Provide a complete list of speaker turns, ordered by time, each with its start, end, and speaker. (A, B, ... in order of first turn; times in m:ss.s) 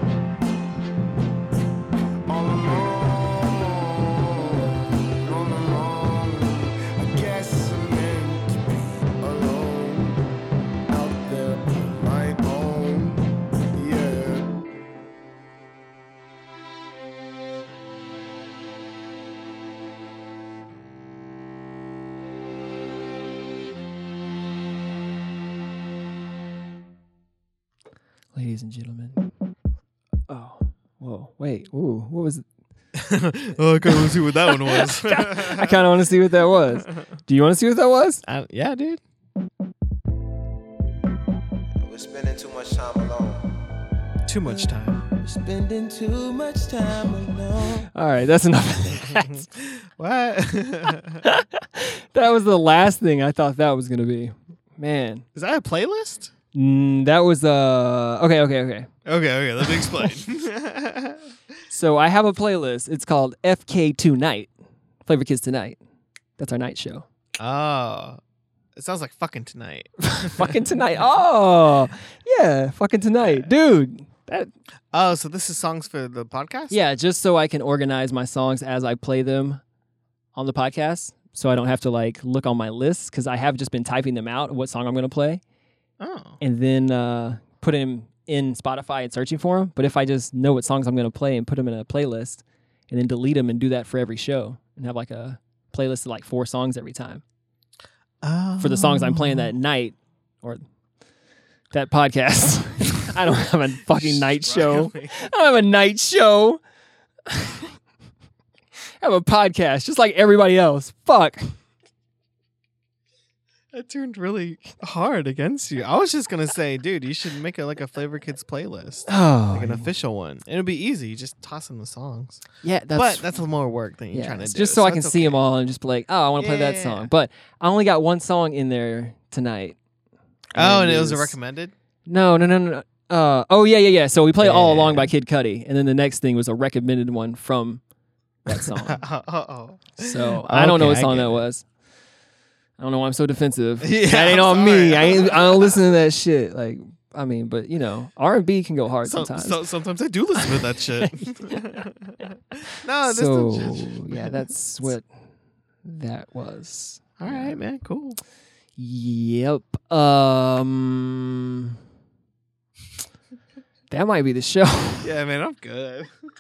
0:02.3-0:10.4 A
0:10.9-0:14.6 A
0:28.4-0:29.2 B
0:30.3-0:32.4 B
0:33.0-0:35.8 C
0:33.9-0:38.2 B
0:38.3-0:39.0 C
0:41.8-0:43.6 A
0:44.3-0:45.0 C
0:45.1-0:47.9 A
0:47.9-0:49.5 B
0:49.0-0:51.2 C
0:51.2-0:55.2 B
0:55.4-0:56.3 C
0:56.5-0:58.9 B
0:59.1-1:01.3 C
0:59.6-1:00.1 B
1:01.7-1:04.5 B
1:05.1-1:05.8 B
1:06.4-1:07.1 B
1:07.4-1:08.2 C
1:08.8-1:10.6 C
1:10.0-1:14.5 B
1:13.2-1:13.5 C
1:14.9-1:16.8 C
1:16.7-1:19.6 B
1:20.4-1:25.4 B
1:26.0-1:26.4 C
1:26.4-1:37.2 B
1:38.2-1:39.5 C
1:38.6-1:40.6 B
1:41.7-1:46.6 B
1:43.9-1:45.1 C
1:47.3-1:47.7 B
1:49.0-1:51.5 B
1:53.7-2:02.4 C
1:59.1-1:59.9 B
2:02.6-2:03.4 B
2:02.9-2:05.4 C
2:04.1-2:09.8 B
2:06.4-2:07.1 C
2:10.6-2:11.7 C
2:10.6-2:11.4 B
2:12.1-2:17.8 B
2:14.4-2:15.1 C
2:18.5-2:19.0 B
2:18.6-2:21.4 C
2:20.0-2:21.6 B
2:22.8-2:29.6 B
2:23.8-2:25.8 C
2:29.0-2:34.9 C
2:30.4-2:31.8 B
2:33.0-2:35.1 B
2:35.8-2:37.6 B
2:37.2-2:38.2 C
2:38.8-2:41.8 B
2:43.9-2:45.1 B
2:45.0-2:46.1 C